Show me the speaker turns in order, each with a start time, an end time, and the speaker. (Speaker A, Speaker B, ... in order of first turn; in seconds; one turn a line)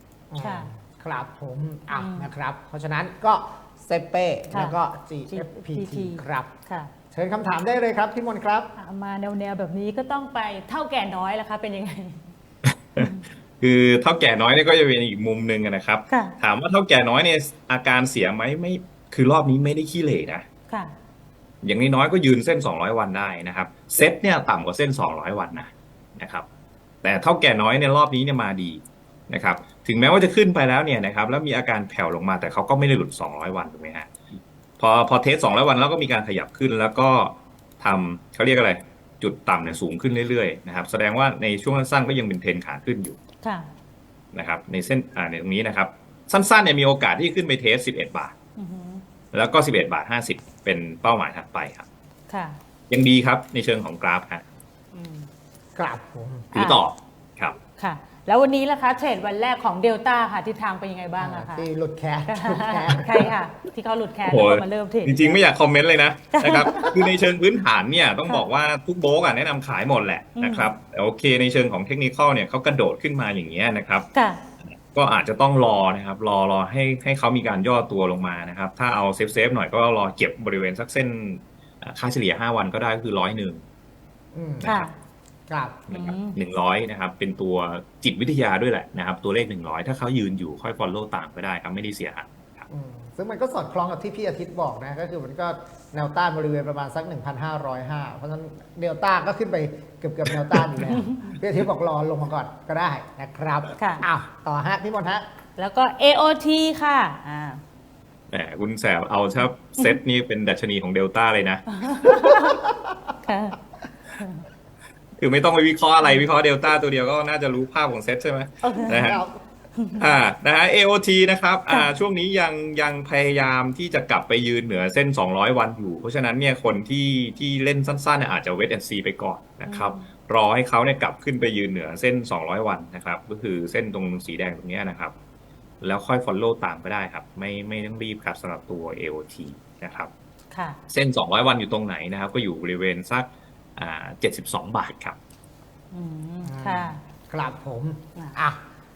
Speaker A: 0.3-6.5
Speaker B: 0.4-0.7
Speaker B: 1.9-2.3
Speaker B: 4.5-4.8
Speaker B: 5.3-6.9
Speaker A: 7.1-8.7
Speaker B: 8.8-12.3
Speaker C: 12.7-20.5
Speaker B: 13.0-13.2
Speaker B: 16.1-16.4
Speaker B: 20.7-20.9
Speaker C: 21.6-26.5
Speaker C: 27.0-34.1
Speaker C: 34.8-43.2
Speaker B: 43.4-43.7
Speaker C: 44.3-48.3
Speaker B: 48.6-49.0
Speaker C: 49.3-51.9
Speaker B: 52.3-52.6
Speaker C: 52.9-54.4
Speaker B: 54.9-55.3
Speaker A: 55.8-56.5
Speaker C: 56.5-57.6
Speaker B: 56.5-56.8
Speaker B: 57.8-61.7
Speaker A: 61.2-63.3
Speaker B: 62.3-65.4
Speaker C: 64.2-74.1
Speaker B: 66.3-67.0
Speaker B: 70.4-70.7
Speaker B: 74.1-74.4
Speaker C: 74.6-83.6
Speaker A: 84.3-84.7
Speaker C: 84.6-84.9
Speaker B: 84.6-84.9
Speaker A: 85.5-85.9
Speaker C: 85.9-92.7
Speaker B: 85.9-86.4
Speaker A: 92.7-105.2
Speaker B: 100.8-101.3
Speaker B: 103.8-104.1
Speaker B: 105.6-107.6
Speaker C: 108.3-111.7
Speaker B: 111.8-112.6
Speaker A: 112.2-112.9
Speaker B: 113.2-113.6
Speaker B: 114.1-114.4
Speaker C: 115.2-119.2
Speaker B: 116.0-116.3
Speaker B: 118.6-119.2
Speaker A: 118.9-119.4
Speaker B: 119.8-120.1
Speaker C: 120.0-135.1
Speaker B: 129.7-130.0
Speaker C: 135.8-140.1
Speaker B: 140.5-140.8
Speaker C: 140.9-145.2
Speaker B: 145.9-147.0
Speaker A: 146.4-148.6